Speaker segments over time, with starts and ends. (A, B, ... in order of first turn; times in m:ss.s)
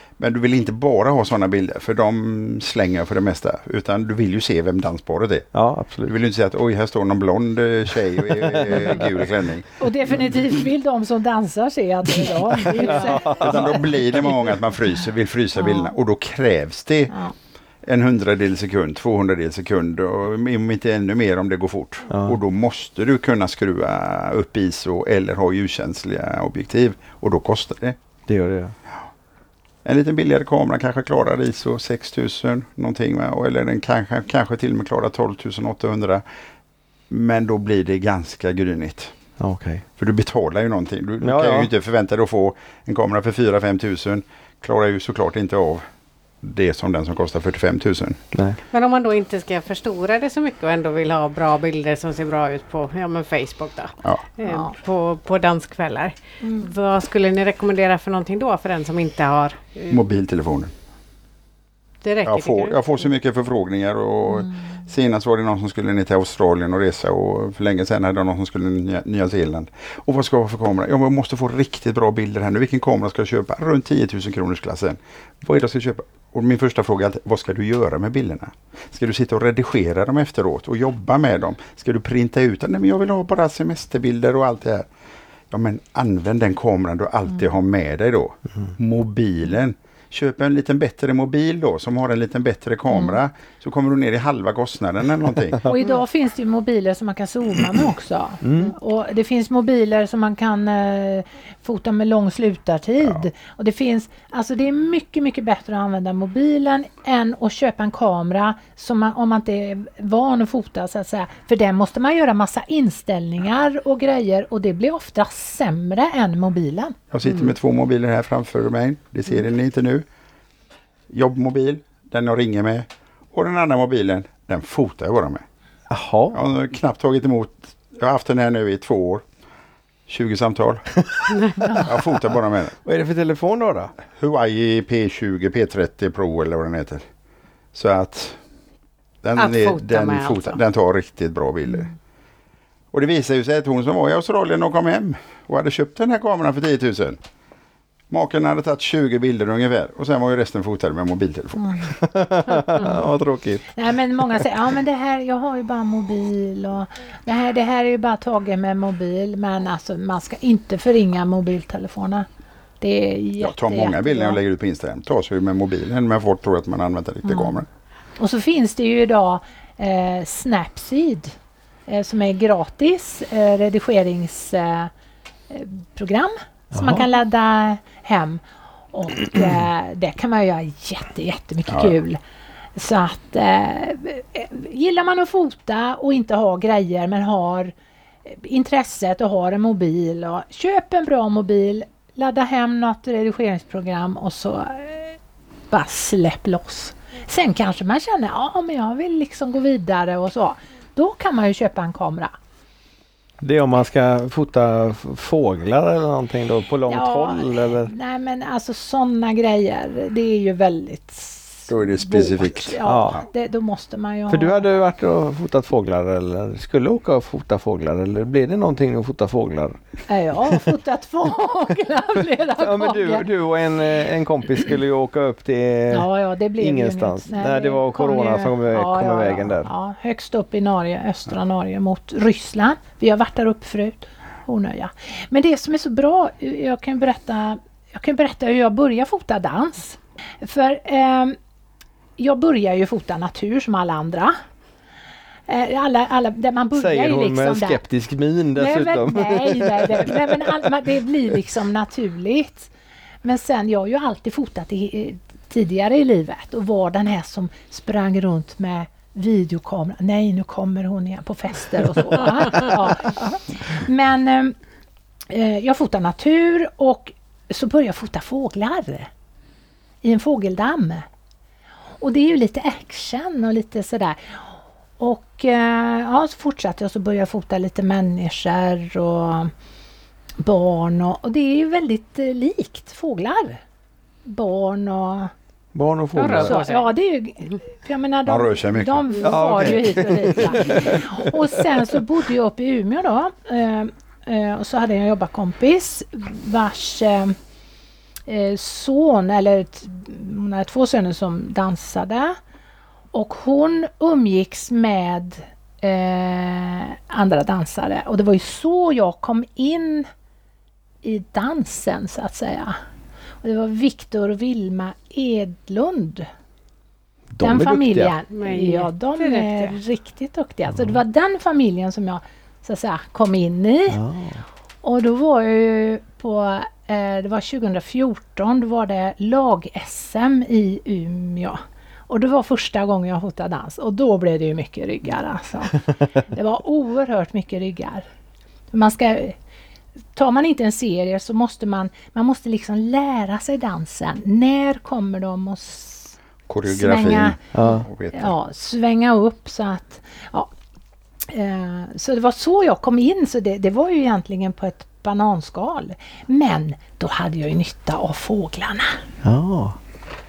0:00.2-0:05.5 A
0:05.5-0:06.1 B
0:06.0-0:09.8 A
0:08.4-0:09.0 B
0:09.8-0:13.9 C
0:12.8-0:13.8 B
0:13.2-0:17.1 A
0:15.6-0:15.9 C
0:17.8-0:28.0 A
0:22.1-0:22.4 B
0:28.3-0:28.7 B
0:29.8-0:36.2 A
0:37.1-0:39.1 A
0:39.4-0:39.8 B
0:40.0-0:45.8 A
0:41.2-0:41.7 B
0:46.4-0:48.2 A
0:48.3-0:48.6 B
0:48.7-1:00.0 D
0:54.4-0:54.7 C
0:56.4-0:56.7 C
0:59.9-1:00.7 A
1:02.0-1:02.9 D
1:02.2-1:24.9 A
1:04.3-1:04.8 C
1:25.5-1:35.6 A
1:32.9-1:33.2 C
1:35.6-1:57.0 C
1:38.4-1:38.7 B
1:57.1-2:00.0 A
2:01.1-2:05.4 A
2:05.9-2:06.4 B
2:06.3-2:09.2 A
2:10.1-2:10.9 A
2:11.8-2:12.7 A
2:12.8-2:13.9 B
2:14.1-2:17.0 A
2:17.7-2:18.4 A
2:19.2-2:21.9 A
2:19.4-2:20.6 D
2:22.9-2:27.2 A
2:28.1-2:31.7 A
2:31.6-2:31.9 C
2:31.9-2:33.7 B
2:33.7-2:42.2 C
2:42.8-2:44.4 C
2:43.4-2:47.7 A
2:47.3-2:47.5 C
2:48.2-2:51.3 C
2:51.9-2:54.9 C
2:55.5-3:02.2 C
2:56.7-2:57.0 B
3:02.8-3:07.7 C
3:08.2-3:15.2 C
3:15.7-3:22.3 C
3:23.4-3:27.9 B
3:26.9-3:34.6 C
3:31.7-3:33.2 A
3:32.8-3:33.2 B
3:34.3-3:39.8 B
3:40.1-3:43.3 C
3:42.6-3:49.7 B
3:45.9-4:01.4 C
4:02.2-4:04.4 C
4:05.5-4:07.8 C
4:06.7-4:10.4 B
4:08.5-4:12.7 C
4:13.2-4:24.6 C
4:25.3-4:29.1 C
4:30.0-4:31.0 C
4:32.0-4:39.5 C
4:40.4-4:43.6 C
4:44.2-4:45.3 C
4:45.7-4:46.6 B
4:46.2-4:46.9 D
4:46.4-4:57.4 C
4:48.2-4:49.2 A
4:49.2-4:51.3 B
4:58.3-5:02.4 C
5:03.1-5:10.1 C
5:11.0-5:12.8 C
5:13.4-5:16.3 C
5:17.3-5:18.1 B
5:17.4-5:24.0 C
5:18.3-5:19.8 D
5:23.9-5:24.4 B
5:24.8-5:38.0 C
5:38.7-5:39.4 C
5:40.2-5:47.4 C
5:46.5-5:48.3 A
5:47.5-5:47.9 B
5:48.1-5:50.5 C
5:51.3-5:59.0 C
5:59.2-5:59.8 B